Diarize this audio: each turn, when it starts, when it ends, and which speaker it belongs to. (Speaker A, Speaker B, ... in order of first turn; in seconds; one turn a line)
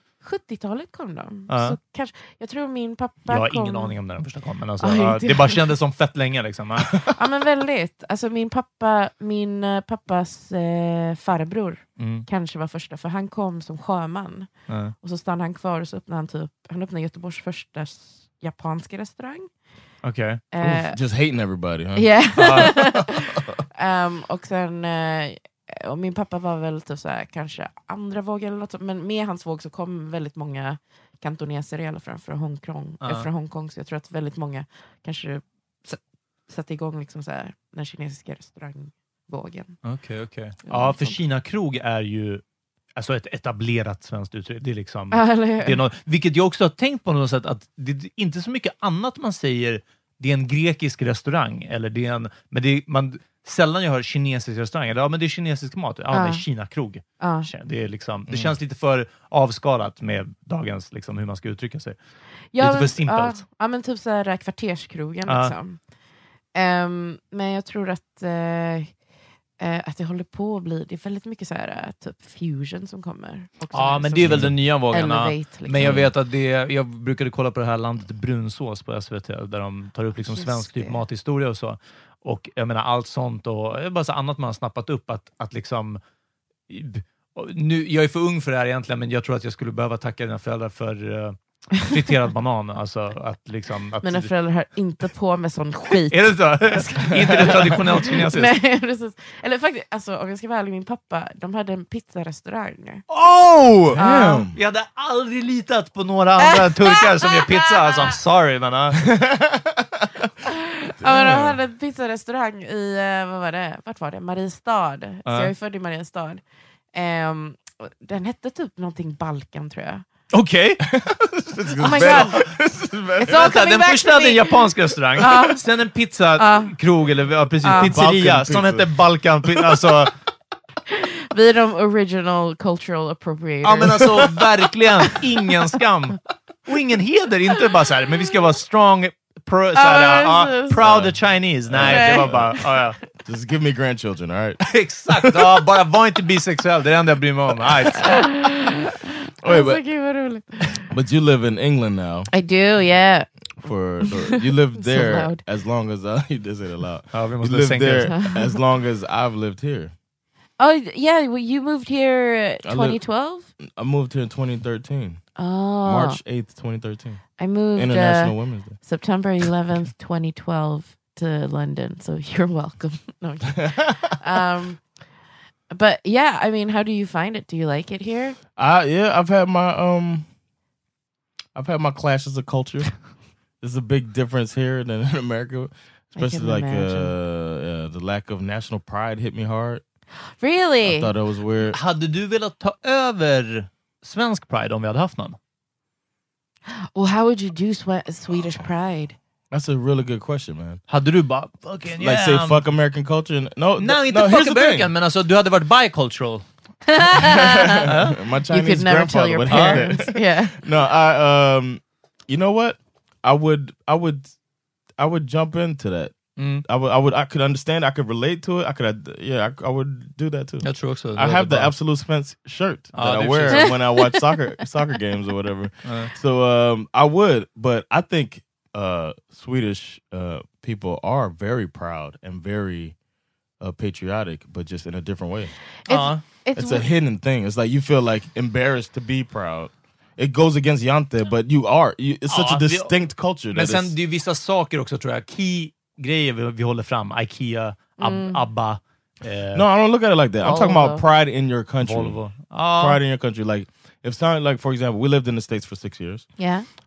Speaker A: 0.2-4.0
Speaker B: 1.5-1.8
Speaker B: 3.3-7.0
Speaker A: 4.8-5.6
Speaker A: 7.1-19.5
Speaker B: 12.0-12.3
Speaker B: 14.7-14.9
Speaker B: 20.0-20.4
Speaker A: 20.5-21.0
Speaker C: 20.6-23.5
Speaker A: 21.9-39.8
Speaker B: 22.4-22.7
Speaker B: 33.0-33.3
Speaker B: 39.8-42.4
Speaker A: 40.6-41.2
Speaker B: 43.0-62.0
Speaker A: 45.1-45.8
Speaker A: 56.1-56.5
Speaker A: 57.2-57.5
Speaker C: 58.3-58.5
Speaker A: 62.5-65.8
Speaker B: 62.6-63.4
Speaker B: 65.3-65.5
Speaker A: 66.5-68.9
Speaker A: 69.6-76.0
Speaker B: 73.7-86.0
Speaker C: 74.2-74.6
Speaker C: 75.8-76.1
Speaker A: 80.2-81.0
Speaker B: 86.7-94.3
Speaker A: 94.0-103.0
Speaker B: 95.9-98.6
Speaker C: 97.3-97.6
Speaker B: 103.1-109.0
Speaker C: 103.9-104.6
Speaker A: 104.0-104.4
Speaker A: 106.4-108.2
Speaker C: 109.1-110.2
Speaker A: 110.4-116.4
Speaker C: 111.0-111.6
Speaker B: 115.3-115.5
Speaker A: 116.9-120.0
Speaker B: 120.3-120.8
Speaker C: 120.8-123.5
Speaker A: 121.8-122.4
Speaker B: 121.8-122.4
Speaker A: 123.2-125.6
Speaker B: 123.3-130.1
Speaker A: 126.4-126.7
Speaker A: 127.6-128.0
Speaker C: 127.8-128.9
Speaker C: 129.5-129.9
Speaker A: 130.9-134.4
Speaker B: 133.6-143.0
Speaker A: 139.8-140.8
Speaker C: 140.8-142.5
Speaker A: 141.8-142.7
Speaker C: 143.2-144.6
Speaker B: 144.6-148.3
Speaker C: 145.2-145.6
Speaker A: 148.0-150.8
Speaker C: 149.4-149.8
Speaker C: 150.9-152.3
Speaker A: 152.3-153.3
Speaker C: 153.6-159.9
Speaker A: 154.0-155.4
Speaker B: 157.1-158.1
Speaker A: 158.1-158.6
Speaker A: 160.6-163.5
Speaker C: 162.6-163.0
Speaker C: 163.6-165.2
Speaker A: 165.4-166.2
Speaker C: 165.8-167.2
Speaker A: 167.4-174.9
Speaker C: 167.8-168.8
Speaker C: 173.6-174.0
Speaker A: 175.7-178.4
Speaker C: 178.6-180.3
Speaker C: 181.6-182.9
Speaker C: 183.6-189.8
Speaker A: 186.2-187.2
Speaker A: 190.4-191.1
Speaker C: 190.8-191.8
Speaker B: 191.7-195.4
Speaker A: 196.7-199.2
Speaker C: 199.5-200.8
Speaker B: 200.9-202.6
Speaker C: 201.9-204.9
Speaker B: 203.8-206.4
Speaker A: 206.9-207.9
Speaker C: 207.2-214.3
Speaker B: 207.9-208.2
Speaker A: 208.5-210.6
Speaker B: 209.5-209.9
Speaker C: 215.0-232.9
Speaker B: 216.4-216.7
Speaker B: 220.6-221.7
Speaker B: 222.9-223.7
Speaker A: 223.5-224.2
Speaker B: 225.8-226.1
Speaker C: 233.6-235.5
Speaker A: 235.9-236.9
Speaker B: 235.9-236.2
Speaker C: 236.6-243.9
Speaker B: 242.3-242.9
Speaker B: 243.5-249.7
Speaker A: 248.0-248.4
Speaker C: 249.5-252.2
Speaker A: 250.4-251.0
Speaker B: 251.8-253.0
Speaker C: 252.8-256.3
Speaker A: 256.4-256.6